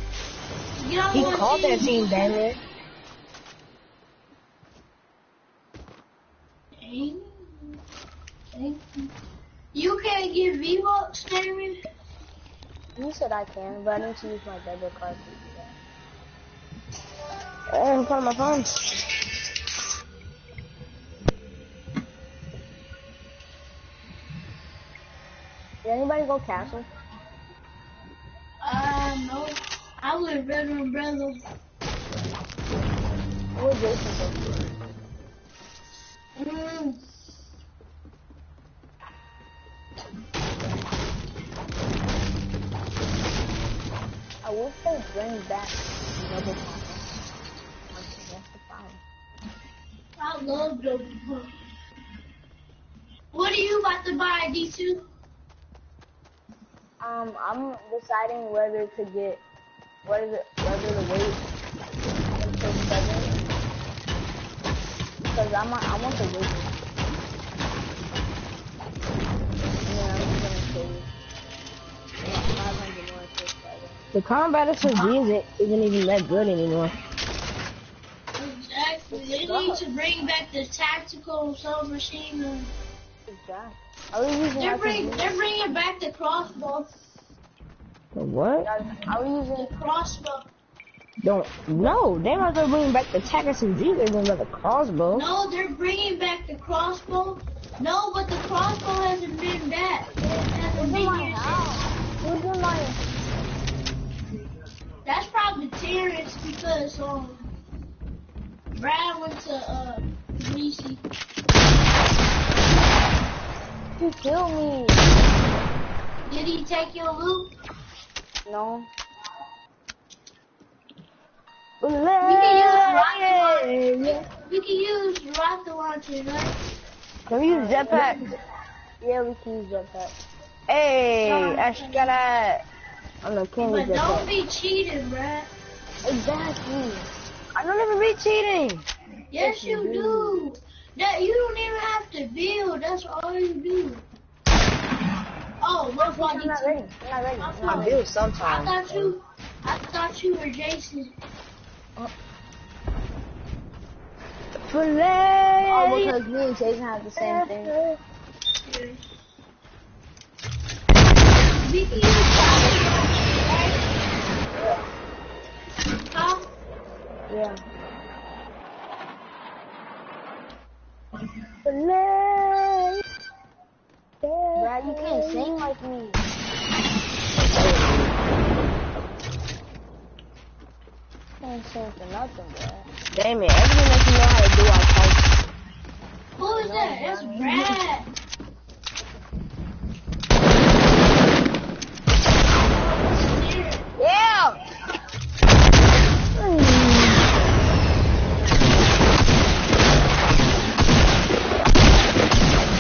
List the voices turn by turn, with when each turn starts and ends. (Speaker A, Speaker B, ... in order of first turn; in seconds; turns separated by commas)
Speaker A: 0.8-2.4, Speaker B: 1.1-2.6, Speaker A: 6.8-7.8, Speaker A: 8.5-9.1, Speaker A: 9.7-11.8, Speaker C: 13.0-15.7, Speaker B: 17.7-19.1, Speaker C: 25.8-26.9, Speaker A: 28.6-31.4, Speaker C: 33.6-34.7, Speaker A: 36.4-37.0, Speaker C: 44.4-47.0, Speaker C: 47.9-49.0, Speaker A: 50.2-51.5, Speaker A: 53.3-55.0, Speaker C: 57.0-59.4, Speaker C: 60.0-61.4, Speaker C: 62.4-63.5, Speaker C: 65.3-66.7, Speaker C: 69.8-71.1, Speaker C: 72.2-74.0, Speaker B: 74.1-77.0, Speaker A: 78.4-82.7, Speaker C: 79.1-79.8, Speaker C: 83.3-85.3, Speaker A: 84.6-86.9, Speaker B: 88.2-88.7, Speaker C: 88.7-89.7, Speaker A: 89.6-90.5, Speaker B: 91.2-95.3, Speaker A: 95.1-101.8, Speaker C: 100.8-103.0, Speaker A: 105.0-107.4, Speaker A: 108.8-111.0, Speaker C: 114.0-115.0, Speaker A: 116.3-117.5, Speaker C: 118.5-118.9, Speaker B: 121.8-124.2, Speaker A: 122.2-126.6, Speaker B: 127.3-128.2, Speaker C: 127.5-128.1, Speaker C: 129.0-130.2, Speaker B: 130.7-132.6, Speaker A: 131.2-132.1, Speaker B: 133.2-134.3, Speaker A: 133.6-135.5, Speaker C: 136.0-137.1, Speaker B: 137.6-138.8, Speaker A: 139.3-144.1, Speaker C: 139.4-140.4, Speaker A: 145.6-146.8, Speaker C: 146.0-148.0, Speaker A: 147.4-151.1, Speaker B: 147.7-149.2, Speaker B: 154.7-156.2, Speaker C: 155.7-157.8, Speaker B: 157.2-158.0, Speaker A: 158.6-159.0, Speaker A: 161.6-163.8, Speaker A: 166.1-166.5, Speaker C: 167.3-167.6, Speaker B: 171.7-172.9, Speaker B: 174.2-175.7, Speaker C: 174.6-176.2, Speaker B: 177.3-178.2, Speaker C: 181.4-182.9, Speaker B: 183.1-185.3, Speaker A: 186.4-188.1, Speaker C: 186.4-187.8, Speaker A: 192.7-193.9, Speaker B: 194.0-194.6, Speaker C: 196.4-197.1